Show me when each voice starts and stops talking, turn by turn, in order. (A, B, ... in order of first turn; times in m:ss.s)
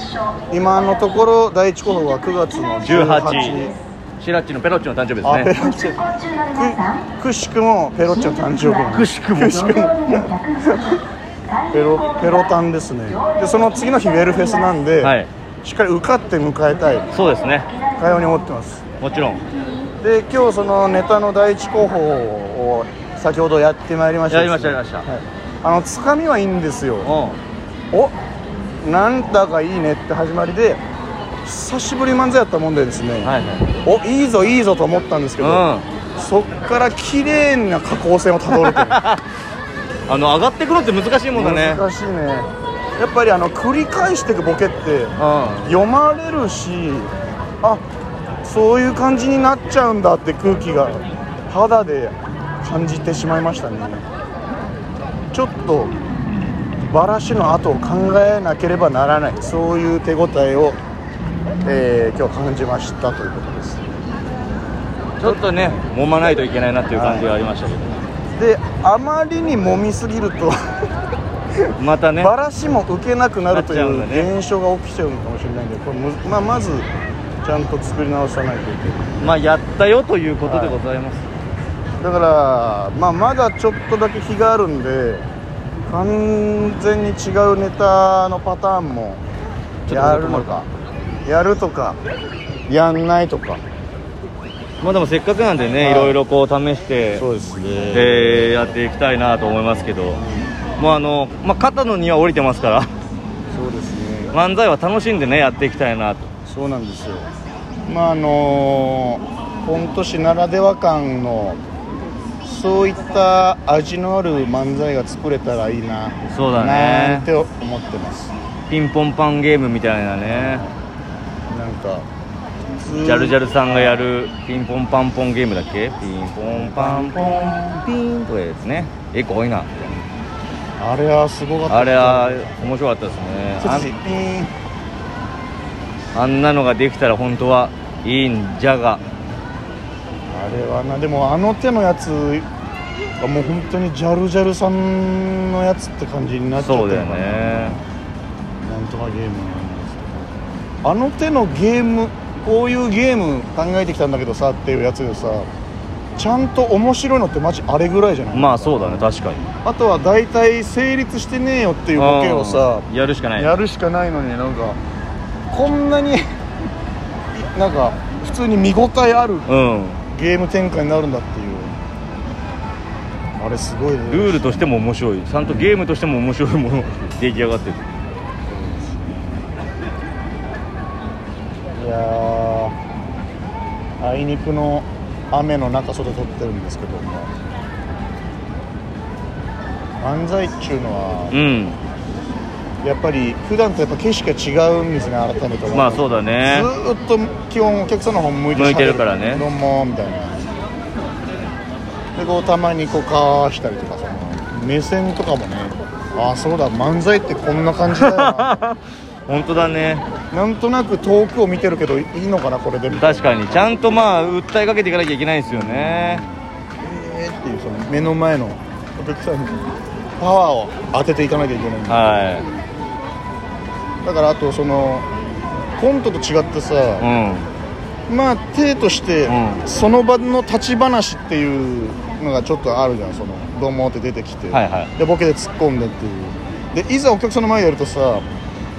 0:00.5-0:03.8 A
0:02.8-0:05.5 B
0:05.2-0:11.0 A
0:08.9-0:09.7 B
0:11.7-0:17.1 A
0:15.0-0:15.3 B
0:17.1-0:17.7 B
0:18.0-0:18.8 A
0:19.0-0:19.4 B
0:20.0-0:27.1 A
0:24.3-0:25.1 B
0:27.0-0:27.4 B
0:28.8-0:30.8 A
0:31.4-0:39.0 A
0:33.2-0:33.7 B
0:35.4-0:35.8 B
0:38.5-0:39.2 B
0:40.1-0:41.8 B
0:41.3-0:47.8 A
0:45.2-0:45.7 B
0:48.4-0:54.0 A
0:55.3-0:55.9 A
0:56.8-1:00.8 A
1:01.6-1:03.8 A
1:05.2-1:07.9 B
1:06.9-1:07.4 A
1:08.4-1:10.6 A
1:11.6-1:16.9 A
1:11.8-1:12.3 B
1:13.5-1:14.3 B
1:17.4-1:19.4 A
1:19.2-1:21.2 B
1:20.4-1:20.8 A
1:22.0-1:25.2 A
1:25.9-1:29.2 A
1:29.9-1:30.6 B
1:29.9-1:30.7 A
1:31.2-1:32.0 A
1:32.7-1:33.6 A
1:34.8-1:37.3 B
1:35.8-1:36.2 A
1:37.2-1:38.8 A
1:37.9-1:40.2 B
1:40.1-1:40.6 A
1:40.8-1:42.9 B
1:43.5-1:44.4 A
1:44.3-1:46.3 B
1:46.5-1:47.3 A
1:47.8-1:51.6 A
1:52.4-1:58.3 A
1:56.3-1:57.3 B
1:58.7-2:00.6 B
2:00.3-2:00.7 A
2:01.5-2:02.1 A
2:02.7-2:04.1 A
2:03.0-2:09.7 B
2:06.5-2:07.8 A
2:10.8-2:12.5 A
2:11.7-2:13.9 B
2:13.6-2:14.5 A
2:16.1-2:19.0 B
2:20.3-2:22.5 A
2:23.2-2:27.8 A
2:26.6-2:27.8 B
2:28.6-2:35.5 A
2:36.2-2:39.1 A
2:38.3-2:39.4 B
2:39.6-2:44.8 A
2:42.0-2:43.5 B
2:45.5-2:46.2 A
2:47.3-2:49.5 A
2:49.5-2:50.0 B
2:50.1-2:51.7 A
2:53.4-2:54.7 A
2:54.1-2:57.9 B
2:55.4-2:55.8 A
2:58.5-2:59.5 A
3:01.8-3:02.8 A
3:04.0-3:07.3 A
3:10.0-3:11.4 A
3:11.3-3:11.8 B
3:12.8-3:20.5 A
3:15.7-3:16.7 B
3:18.6-3:19.5 B
3:22.2-3:28.6 A
3:27.9-3:30.1 B
3:30.3-3:33.9 A
3:33.0-3:36.2 B
3:35.5-3:42.3 A
3:41.9-3:42.5 B
3:44.0-3:45.1 A
3:45.8-3:47.1 A
3:47.0-3:47.5 B
3:48.1-3:58.2 A
3:49.3-3:49.6 B
3:54.5-3:54.9 B